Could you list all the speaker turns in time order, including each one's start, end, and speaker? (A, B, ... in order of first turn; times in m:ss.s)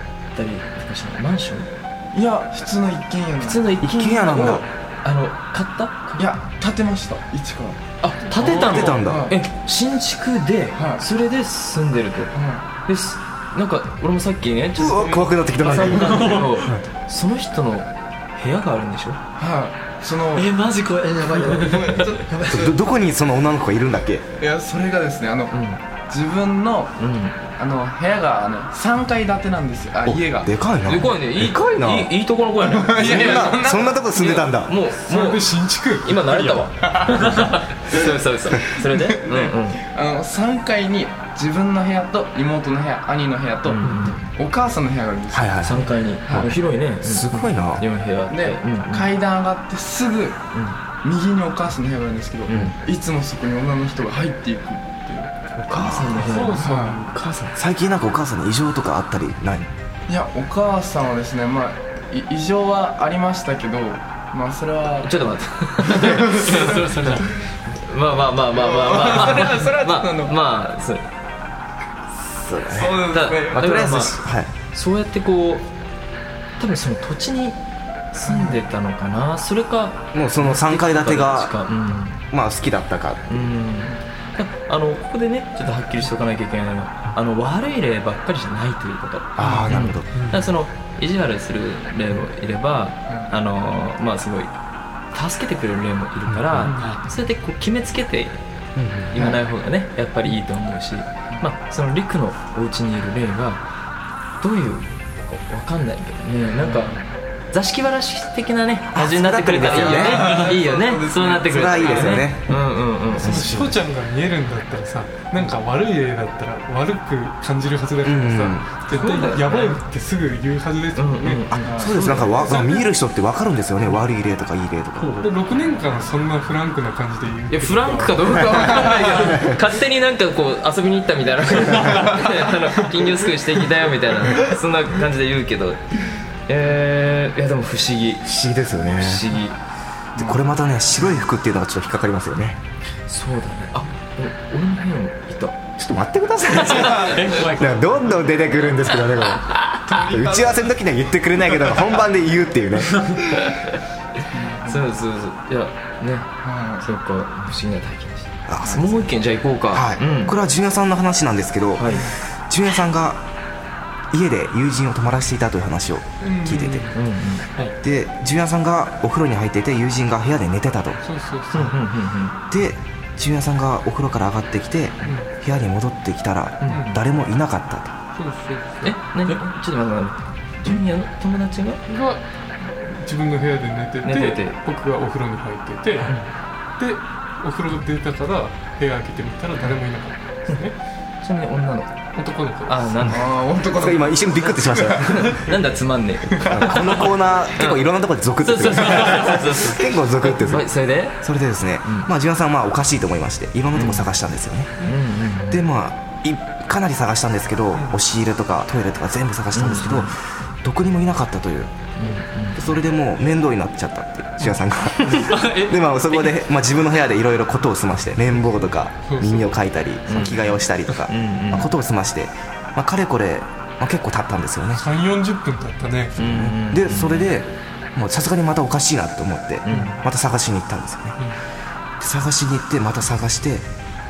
0:00.3-0:01.7 A
0:02.1-0:03.7 B
0:03.4-0:06.3 A
0:03.8-0:04.6 C
0:04.2-0:04.6 B
0:06.2-0:07.8 B
0:08.0-0:19.2 A
0:08.4-0:09.3 C
0:08.4-0:09.4 B
0:10.7-0:11.0 B
0:12.3-0:12.7 B
0:14.8-0:16.9 C
0:15.7-0:16.7 D
0:19.4-0:20.6 B
0:20.4-0:21.7 D
0:21.2-0:22.8 B
0:22.5-0:24.2 C
0:24.4-0:25.6 B
0:25.5-0:25.8 A
0:26.1-0:27.0 B
0:27.0-0:27.4 A
0:27.5-0:30.5 B
0:30.0-0:32.1 C
0:30.8-0:33.6 A
0:32.7-0:34.1 B
0:33.0-0:34.7 C
0:33.2-0:33.5 E
0:34.1-0:39.8 A
0:35.0-0:36.5 E
0:38.9-0:46.5 B
0:43.7-0:44.3 A
0:45.3-0:46.5 C
0:45.6-0:49.1 A
0:47.0-0:47.8 C
0:48.3-0:50.4 B
0:50.5-0:50.8 A
0:51.0-0:57.0 B
0:52.5-0:52.8 A
0:55.6-0:56.6 A
0:55.7-0:56.6 C
0:56.2-0:57.1 E
0:57.1-0:59.7 C
1:00.1-1:05.1 B
1:05.0-1:06.8 A
1:05.8-1:07.2 B
1:06.2-1:07.3 D
1:07.7-1:11.0 A
1:08.5-1:10.4 B
1:09.0-1:09.6 E
1:12.2-1:13.1 C
1:12.7-1:14.1 B
1:13.1-1:14.2 A
1:14.0-1:14.5 C
1:14.7-1:15.7 A
1:16.6-1:17.6 A
1:18.1-1:22.2 A
1:18.2-1:18.6 B
1:20.1-1:21.5 C
1:22.3-1:23.5 C
1:23.3-1:34.5 A
1:29.4-1:30.1 C
1:29.4-1:29.9 E
1:30.1-1:30.5 D
1:33.1-1:33.3 B
1:35.1-1:38.4 A
1:36.3-1:36.7 C
1:36.7-1:37.0 D
1:38.8-1:39.2 C
1:39.1-1:43.6 A
1:39.2-1:39.4 B
1:44.4-1:53.6 A
1:48.9-1:50.4 C
1:49.6-1:51.9 B
1:50.2-1:50.6 D
1:51.5-1:52.6 C
1:53.1-2:01.5 E
1:53.2-1:53.7 C
1:58.0-1:58.7 C
1:58.9-1:59.8 A
2:01.0-2:02.4 A
2:01.5-2:05.3 C
2:01.6-2:02.3 B
2:02.4-2:02.9 E
2:05.0-2:05.3 D
2:05.2-2:09.1 E
2:07.5-2:18.3 A
2:08.5-2:09.3 B
2:09.2-2:09.6 C
2:18.2-2:19.3 C
2:18.9-2:19.6 A
2:20.2-2:20.4 B
2:20.2-2:22.6 C
2:23.1-2:25.6 A
2:25.8-2:33.2 C
2:26.5-2:27.1 A
2:26.6-2:27.9 D
2:29.8-2:30.7 B
2:34.3-2:34.9 B
2:34.7-2:40.4 A
2:36.4-2:36.9 B
2:38.5-2:39.0 C
2:39.7-2:43.2 C
2:41.8-2:42.1 A
2:44.1-2:46.9 C
2:46.2-2:47.0 E
2:46.9-2:47.5 A
2:47.8-2:51.0 C
2:51.0-2:51.8 E
2:51.5-2:52.4 A
2:52.5-2:57.9 C
2:55.0-2:55.3 E
2:56.6-2:57.0 A
2:56.7-2:57.0 E
2:58.2-2:59.0 E
2:58.8-3:01.8 A
3:01.9-3:06.2 E
3:04.0-3:04.6 A
3:06.8-3:10.8 E
3:11.2-3:11.9 A
3:12.1-3:13.2 E
3:12.7-3:13.2 A
3:13.1-3:15.5 B
3:13.7-3:15.3 C
3:14.4-3:17.9 A
3:16.3-3:16.8 B
3:16.5-3:24.8 C
3:18.4-3:21.2 A
3:21.8-3:22.1 A
3:23.7-3:24.1 A
3:24.8-3:25.6 A
3:25.5-3:31.8 C
3:27.7-3:28.0 E
3:29.5-3:30.1 A
3:32.0-3:32.7 A
3:32.6-3:44.8 C
3:35.4-3:35.8 D
3:39.0-3:39.6 E
3:40.1-3:41.7 A
3:44.8-3:46.2 E
3:46.2-3:47.3 A
3:46.2-3:51.2 C
3:49.7-3:50.0 A
3:52.0-3:53.7 C